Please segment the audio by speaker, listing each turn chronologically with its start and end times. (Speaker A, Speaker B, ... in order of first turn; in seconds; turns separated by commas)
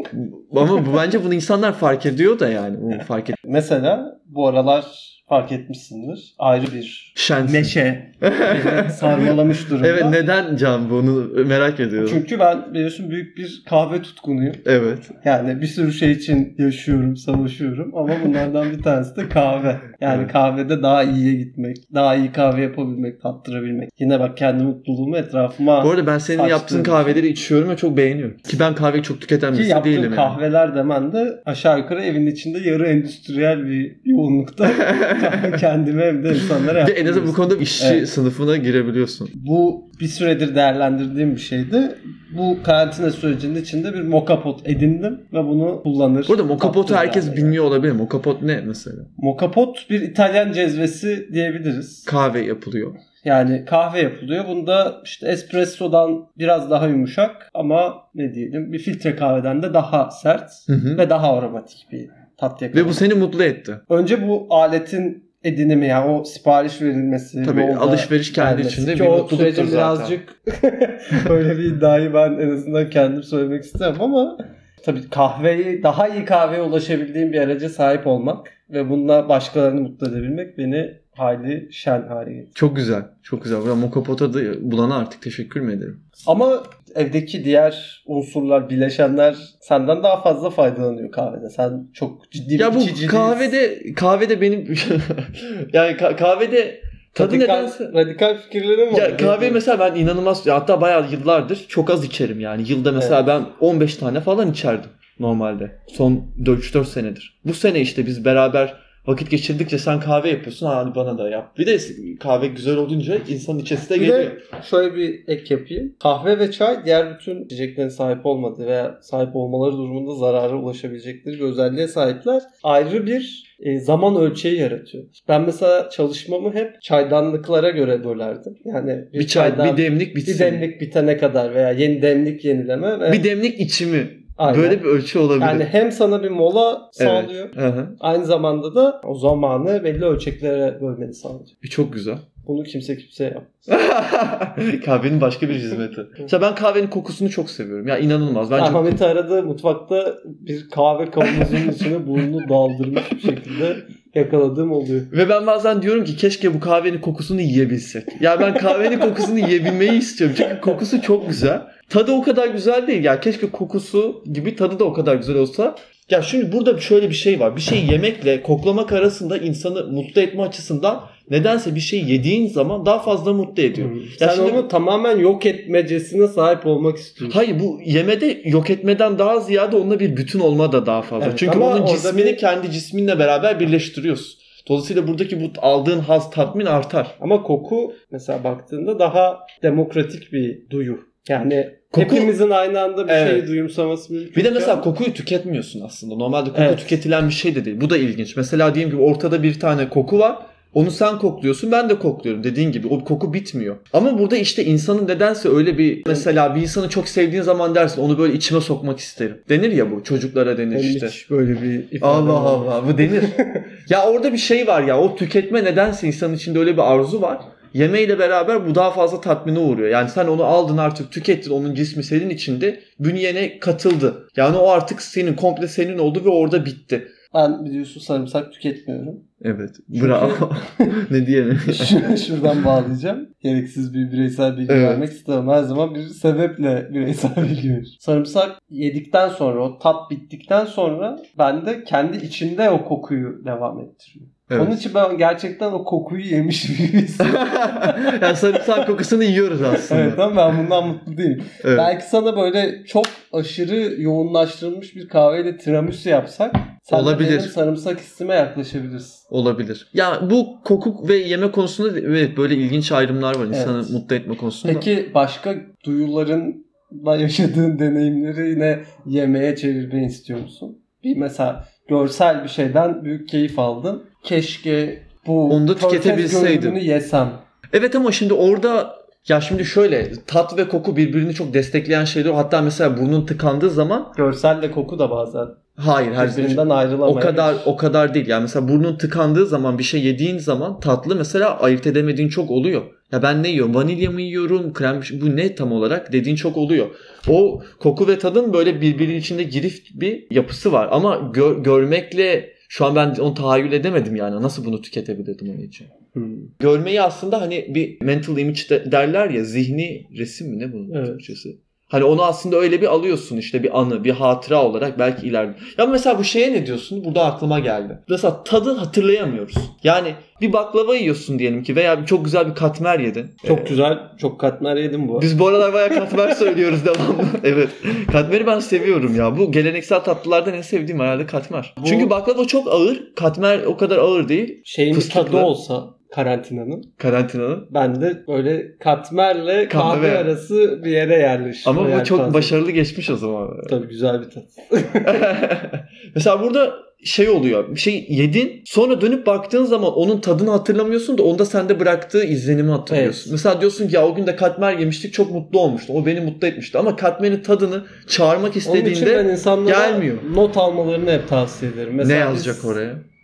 Speaker A: 0.1-3.4, Speaker B: 3.4-10.2, Speaker A: 7.2-12.2, Speaker B: 12.0-14.6, Speaker A: 14.7-15.1, Speaker B: 15.2-27.2, Speaker A: 25.8-30.4, Speaker B: 29.5-38.1, Speaker A: 34.8-35.6, Speaker A: 36.7-39.3, Speaker B: 39.3-47.6, Speaker A: 46.3-49.1, Speaker B: 49.2-52.1, Speaker A: 52.1-53.0, Speaker B: 53.2-63.0, Speaker A: 60.7-61.0, Speaker A: 62.7-63.8, Speaker B: 63.9-82.5, Speaker A: 67.4-70.2, Speaker A: 82.5-86.0, Speaker B: 86.3-93.5, Speaker A: 92.6-97.9, Speaker B: 97.2-99.6, Speaker A: 98.9-114.4, Speaker B: 114.0-133.3, Speaker A: 129.2-130.7, Speaker A: 133.1-135.7, Speaker B: 134.4-134.8, Speaker B: 135.4-141.5, Speaker A: 137.0-138.0, Speaker A: 141.6-142.3, Speaker B: 142.4-143.7, Speaker A: 143.7-149.0, Speaker B: 148.6-155.1, Speaker A: 155.1-174.7, Speaker B: 173.8-177.4, Speaker A: 177.3-187.2, Speaker B: 181.2-182.4, Speaker B: 187.2-194.9, Speaker A: 191.9-192.3, Speaker A: 193.1-193.5, Speaker A: 194.3-211.2, Speaker B: 196.5-197.0, Speaker B: 210.7-213.7, Speaker A: 212.0-227.1, Speaker B: 227.3-229.2, Speaker A: 229.4-232.6, Speaker B: 229.9-231.0, Speaker B: 231.7-248.9, Speaker A: 234.7-235.1, Speaker A: 244.5-244.8, Speaker A: 247.2-250.3, Speaker B: 249.7-259.2, Speaker A: 251.6-251.9, Speaker A: 256.9-257.5, Speaker A: 259.3-264.9, Speaker B: 263.5-264.0, Speaker B: 264.6-277.4, Speaker A: 275.5-276.8, Speaker A: 277.7-284.1, Speaker B: 284.1-285.6, Speaker A: 285.8-305.9, Speaker B: 286.2-287.7, Speaker B: 306.1-306.5, Speaker A: 306.6-323.8, Speaker B: 310.9-311.2, Speaker B: 323.4-325.3, Speaker A: 325.2-335.5, Speaker B: 331.8-332.1, Speaker B: 334.6-336.9, Speaker A: 337.0-337.7, Speaker B: 337.7-342.6, Speaker A: 339.7-340.3, Speaker A: 341.6-343.8, Speaker B: 343.7-345.3, Speaker A: 345.0-360.3, Speaker B: 352.9-353.3, Speaker B: 358.6-362.8, Speaker A: 362.0-363.0